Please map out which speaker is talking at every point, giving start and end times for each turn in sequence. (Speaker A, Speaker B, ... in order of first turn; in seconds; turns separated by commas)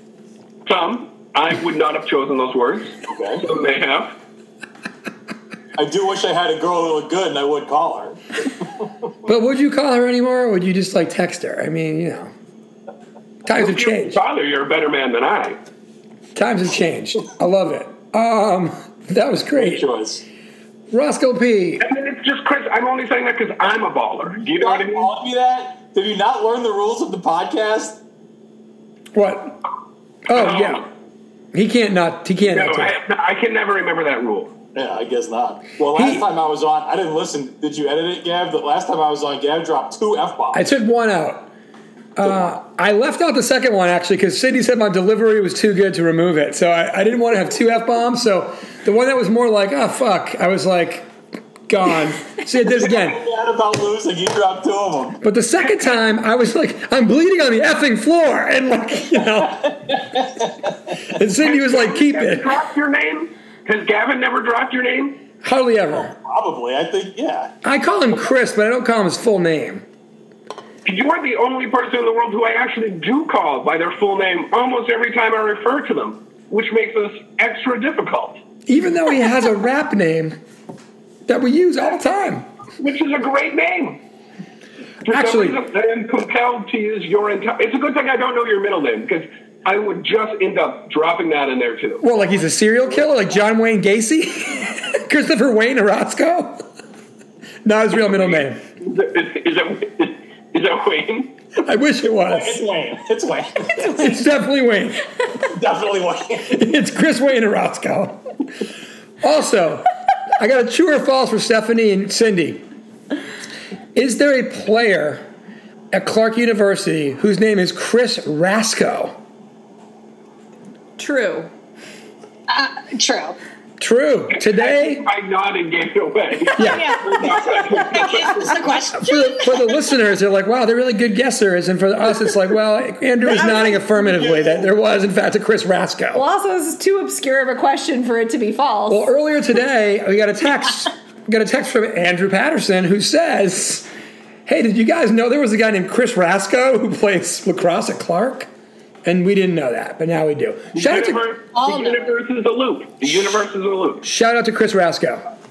Speaker A: 0.7-4.2, Speaker B: 3.0-3.4, Speaker B: 5.8-8.2, Speaker C: 9.2-12.3, Speaker C: 13.4-14.2, Speaker A: 13.5-15.6, Speaker C: 16.3-19.9, Speaker B: 19.6-20.2, Speaker C: 20.9-21.8, Speaker A: 21.8-25.1, Speaker B: 24.4-28.0, Speaker C: 29.1-29.6, Speaker C: 30.3-30.9, Speaker A: 30.3-30.9, Speaker C: 31.5-32.9, Speaker A: 32.5-34.5, Speaker B: 34.7-40.6, Speaker C: 35.9-36.2, Speaker C: 40.5-41.5, Speaker C: 42.1-51.1, Speaker C: 51.7-53.2, Speaker B: 52.7-55.2, Speaker C: 55.2-60.0, Speaker B: 60.2-60.5, Speaker C: 61.1-62.6, Speaker A: 61.4-65.2, Speaker C: 65.4-66.1, Speaker B: 65.9-67.5, Speaker C: 67.6-69.8, Speaker A: 70.8-78.4, Speaker C: 78.7-80.4, Speaker C: 81.3-82.5, Speaker A: 82.8-84.0, Speaker A: 85.0-92.0, Speaker C: 85.1-85.6, Speaker C: 92.0-96.6, Speaker C: 97.6-98.6, Speaker A: 98.0-101.3, Speaker C: 101.6-102.6, Speaker B: 102.2-104.1, Speaker C: 103.8-105.1, Speaker B: 105.5-106.6, Speaker C: 106.5-108.2, Speaker C: 109.2-109.8, Speaker C: 110.4-112.6, Speaker C: 113.9-115.2, Speaker C: 115.9-119.2, Speaker D: 121.0-121.5, Speaker E: 122.5-123.3, Speaker C: 123.8-125.0, Speaker A: 124.3-128.7, Speaker C: 126.6-127.0, Speaker E: 126.6-129.8, Speaker C: 129.0-136.2, Speaker B: 133.2-134.7, Speaker D: 136.1-139.1, Speaker C: 138.9-143.9, Speaker C: 144.4-148.5, Speaker C: 149.0-151.2, Speaker A: 150.7-154.0, Speaker E: 151.5-152.1, Speaker C: 154.0-155.2